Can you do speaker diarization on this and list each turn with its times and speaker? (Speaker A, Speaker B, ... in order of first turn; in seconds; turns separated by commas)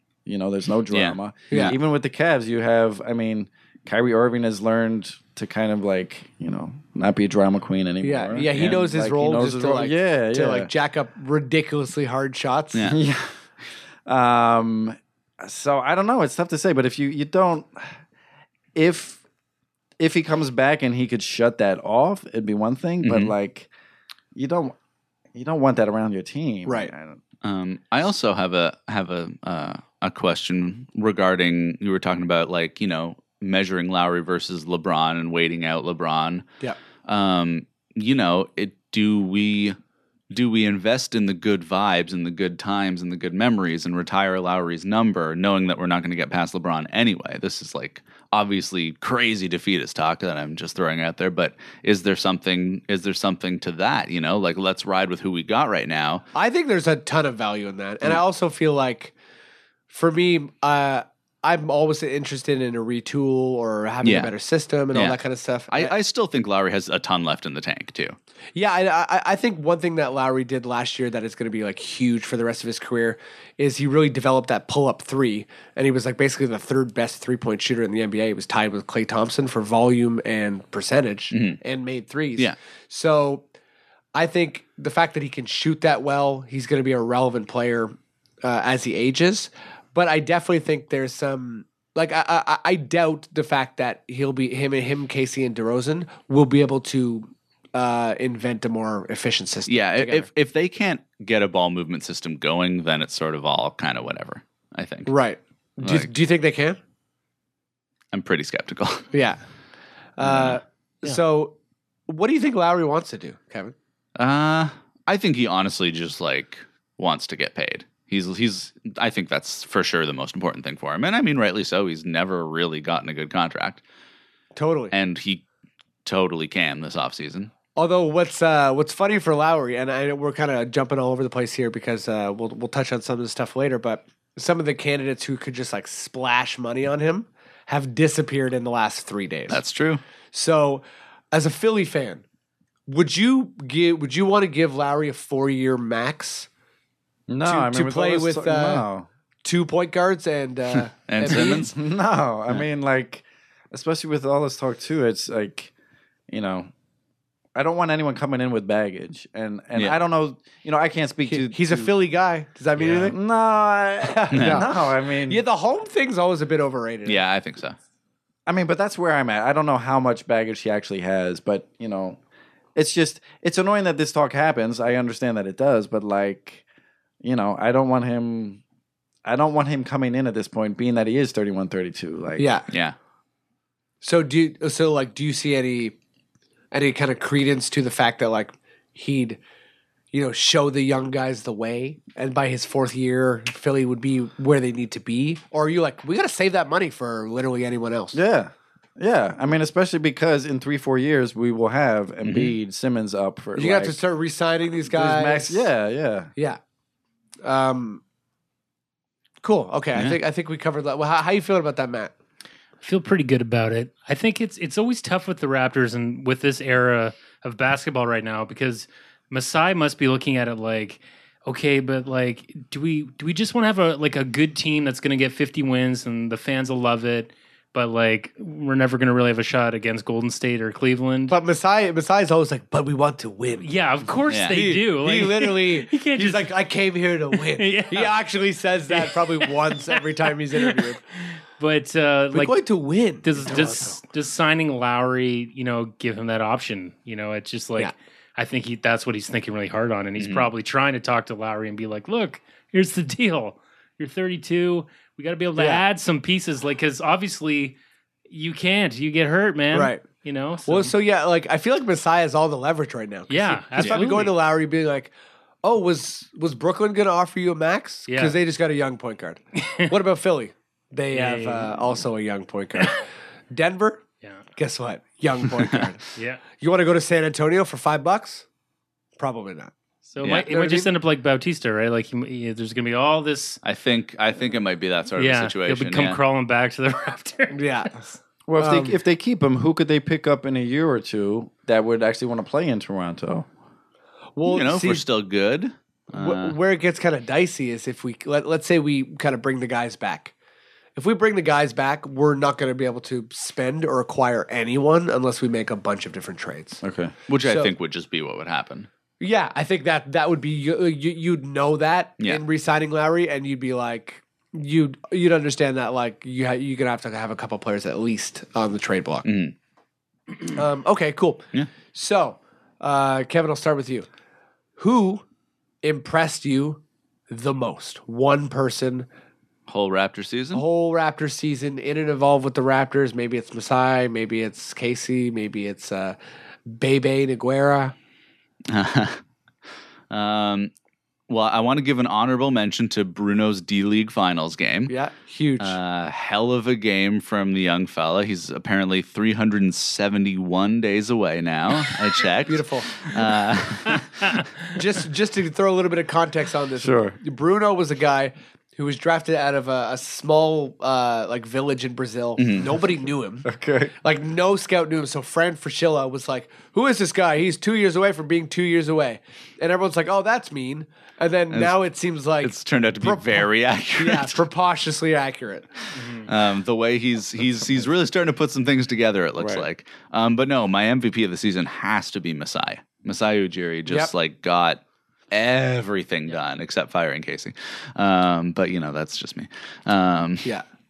Speaker A: 0.2-10.7, Speaker B: 0.9-1.8, Speaker C: 1.5-1.8, Speaker C: 8.0-12.9, Speaker A: 12.8-17.9, Speaker A: 18.7-19.2, Speaker A: 20.0-23.7, Speaker B: 23.0-23.3, Speaker A: 24.3-24.7, Speaker A: 25.3-27.2, Speaker C: 26.6-26.9, Speaker B: 27.4-36.5, Speaker B: 37.0-39.8, Speaker B: 40.3-56.2, Speaker C: 56.3-59.1, Speaker C: 59.9-65.9, Speaker B: 64.0-64.3, Speaker B: 65.7-68.2, Speaker C: 68.5-83.5, Speaker B: 81.3-81.6, Speaker C: 84.1-100.3, Speaker B: 99.7-105.1, Speaker C: 105.1-106.8, Speaker B: 105.8-106.1, Speaker B: 108.1-109.1, Speaker C: 109.1-109.4, Speaker C: 110.2-111.5, Speaker B: 110.2-110.6, Speaker C: 112.1-113.7, Speaker B: 114.2-123.8, Speaker C: 124.5-124.9, Speaker B: 124.9-125.4, Speaker B: 126.0-127.5, Speaker C: 127.8-139.6, Speaker B: 139.5-140.0, Speaker C: 140.3-142.2, Speaker C: 142.9-146.5, Speaker A: 147.3-149.1, Speaker C: 147.4-148.8, Speaker C: 149.4-151.7, Speaker B: 150.9-151.8, Speaker A: 151.4-155.7, Speaker A: 156.3-156.7, Speaker A: 157.5-161.9, Speaker C: 161.2-163.2, Speaker A: 162.8-165.4, Speaker C: 164.0-164.7, Speaker B: 164.3-164.6, Speaker C: 165.3-167.2, Speaker B: 167.1-167.8, Speaker A: 168.4-172.2, Speaker A: 172.7-176.6, Speaker A: 177.2-178.6, Speaker A: 179.2-182.5, Speaker C: 182.4-182.6, Speaker B: 182.7-182.9, Speaker C: 184.0-185.9, Speaker C: 186.7-189.4, Speaker C: 190.1-198.2, Speaker A: 198.1-203.9, Speaker B: 202.2-202.5, Speaker C: 203.6-205.7, Speaker A: 204.8-206.3, Speaker C: 207.4-208.0, Speaker C: 209.4-212.1, Speaker D: 212.8-231.3, Speaker C: 231.3-233.7, Speaker D: 233.6-236.5, Speaker B: 234.3-234.6, Speaker C: 234.5-241.0, Speaker D: 237.3-238.1, Speaker D: 238.9-239.8, Speaker D: 240.5-242.6, Speaker C: 242.3-244.0, Speaker D: 243.2-257.8, Speaker B: 250.2-250.5, Speaker C: 255.6-255.8, Speaker D: 258.3-260.9, Speaker C: 259.7-260.0, Speaker C: 260.6-265.1, Speaker D: 263.3-264.4, Speaker B: 263.8-264.0, Speaker C: 265.6-273.0, Speaker D: 268.1-268.4, Speaker D: 271.1-271.9, Speaker C: 273.5-274.0, Speaker C: 274.6-278.4, Speaker D: 276.1-276.4, Speaker C: 279.2-279.7, Speaker D: 280.1-283.6, Speaker B: 280.2-280.5, Speaker C: 280.4-280.9, Speaker B: 283.6-286.2, Speaker D: 285.2-287.9, Speaker C: 287.5-289.0, Speaker A: 288.5-293.5, Speaker C: 294.4-295.0, Speaker B: 294.5-296.6, Speaker C: 296.1-300.3, Speaker C: 300.9-306.8, Speaker A: 306.8-307.1, Speaker B: 307.3-308.9, Speaker C: 307.4-307.7, Speaker C: 309.2-319.3, Speaker B: 319.2-319.5, Speaker C: 320.5-324.1, Speaker C: 324.8-325.2, Speaker C: 325.8-329.1, Speaker B: 329.7-330.6, Speaker C: 330.5-337.9, Speaker B: 338.7-339.2, Speaker B: 340.1-340.7, Speaker B: 341.3-344.9, Speaker C: 344.9-345.8, Speaker B: 345.6-354.4, Speaker C: 352.4-352.9, Speaker C: 354.7-363.5, Speaker A: 356.8-357.2, Speaker B: 362.4-362.6, Speaker A: 363.4-363.9, Speaker C: 364.0-375.7, Speaker B: 371.5-371.8, Speaker B: 372.4-374.4, Speaker D: 375.9-376.3, Speaker B: 376.2-390.5, Speaker A: 379.4-379.6, Speaker C: 383.9-384.1